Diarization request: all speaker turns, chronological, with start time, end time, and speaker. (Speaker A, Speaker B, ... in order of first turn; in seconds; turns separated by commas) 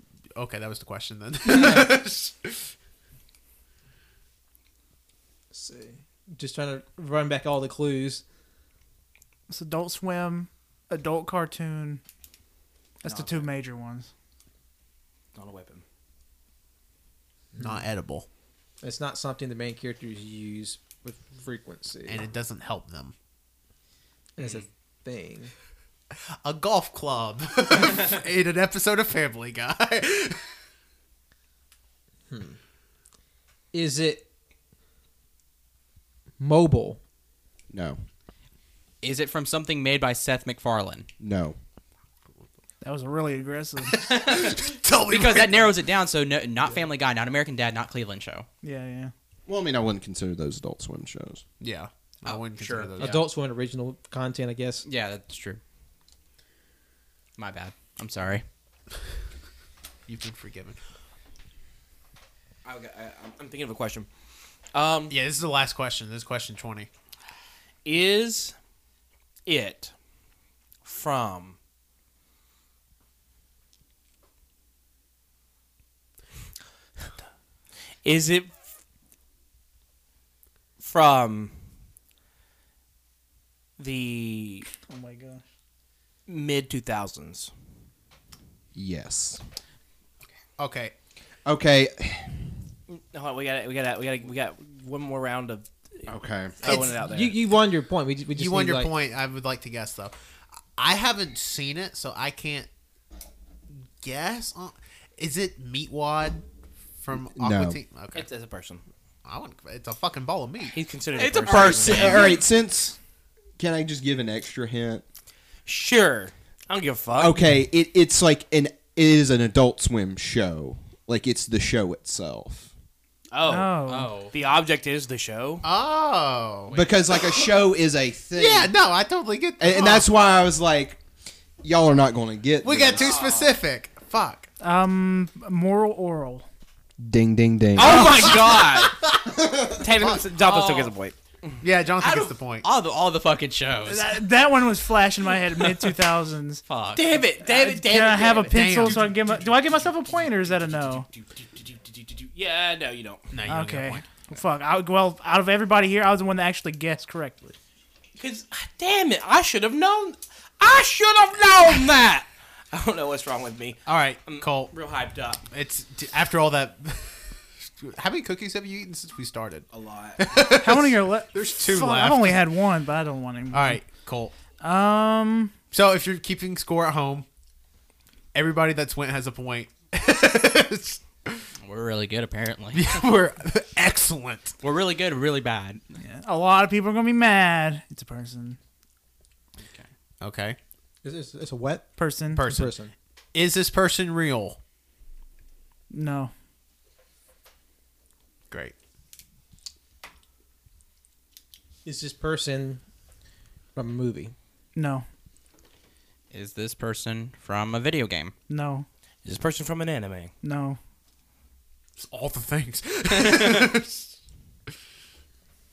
Speaker A: 0.3-2.7, Speaker B: 5.5-8.2, Speaker C: 9.5-12.0, Speaker C: 13.0-14.1, Speaker D: 13.1-13.5, Speaker D: 15.3-15.8, Speaker A: 17.6-18.2, Speaker B: 18.8-22.2, Speaker A: 22.1-23.1, Speaker B: 24.4-25.5, Speaker E: 24.4-24.6, Speaker A: 26.4-30.4, Speaker B: 32.3-32.6, Speaker B: 33.7-34.2, Speaker B: 36.4-37.0, Speaker F: 37.7-38.0, Speaker E: 39.0-41.1, Speaker F: 41.2-41.5, Speaker C: 42.8-44.0, Speaker E: 43.9-48.5, Speaker A: 44.1-45.7, Speaker C: 48.6-49.1, Speaker F: 49.5-51.4, Speaker A: 51.6-53.2, Speaker E: 52.2-53.2, Speaker B: 53.0-54.8, Speaker E: 54.8-55.6, Speaker E: 57.4-58.4, Speaker A: 60.1-60.8, Speaker D: 62.6-64.1, Speaker D: 64.7-65.1, Speaker A: 65.1-66.9, Speaker D: 67.8-68.5, Speaker D: 69.5-69.9, Speaker D: 70.8-71.6, Speaker D: 78.0-78.7, Speaker D: 80.8-81.6, Speaker D: 83.8-84.7, Speaker C: 84.7-85.4, Speaker D: 86.3-87.5, Speaker F: 88.7-89.4, Speaker A: 90.6-90.9, Speaker F: 91.4-92.6, Speaker D: 92.9-97.4, Speaker F: 96.1-96.7, Speaker A: 96.6-96.9, Speaker B: 96.7-98.9, Speaker A: 98.3-100.1, Speaker A: 100.8-102.7, Speaker A: 104.0-106.4, Speaker A: 107.0-108.3, Speaker F: 107.3-107.8, Speaker D: 108.1-108.8, Speaker A: 109.2-110.8, Speaker D: 110.7-112.4, Speaker E: 111.2-112.3, Speaker F: 111.4-113.0, Speaker F: 113.6-115.0, Speaker D: 115.7-117.4, Speaker F: 117.2-122.7, Speaker D: 123.3-125.6, Speaker C: 123.4-124.3, Speaker E: 123.8-124.3, Speaker A: 125.6-126.8, Speaker F: 126.7-128.7, Speaker A: 128.3-130.1, Speaker F: 129.6-131.0, Speaker F: 131.6-133.1, Speaker A: 132.6-134.5, Speaker D: 132.9-133.6, Speaker C: 134.6-136.5, Speaker F: 137.0-138.4, Speaker D: 137.7-139.0, Speaker A: 138.2-139.3, Speaker D: 139.7-141.2, Speaker A: 140.0-140.2, Speaker E: 140.4-140.9, Speaker A: 141.6-142.7, Speaker E: 142.0-144.2, Speaker C: 143.8-146.6, Speaker D: 145.6-145.9, Speaker E: 146.7-147.2, Speaker D: 146.9-148.9, Speaker C: 147.5-151.1, Speaker A: 148.5-149.2, Speaker D: 151.1-153.3, Speaker A: 153.3-154.1, Speaker C: 153.4-157.6, Speaker D: 158.2-165.4, Speaker A: 163.8-164.7, Speaker A: 165.5-172.4, Speaker D: 169.7-170.3, Speaker C: 170.6-173.8, Speaker A: 173.5-174.3, Speaker C: 174.6-175.5, Speaker A: 175.7-177.3, Speaker A: 178.3-181.4, Speaker E: 181.6-183.0, Speaker A: 182.7-184.5, Speaker E: 184.6-185.8, Speaker C: 186.0-188.6, Speaker E: 189.6-189.9, Speaker A: 190.2-190.6, Speaker B: 191.0-192.9, Speaker C: 192.0-192.5, Speaker A: 192.3-192.7, Speaker A: 193.3-194.6, Speaker C: 195.9-196.3, Speaker B: 201.8-202.8, Speaker B: 203.7-204.3, Speaker C: 204.7-205.0, Speaker E: 206.3-208.3, Speaker C: 208.5-208.8, Speaker D: 209.2-210.3, Speaker C: 210.4-210.8, Speaker A: 212.0-214.1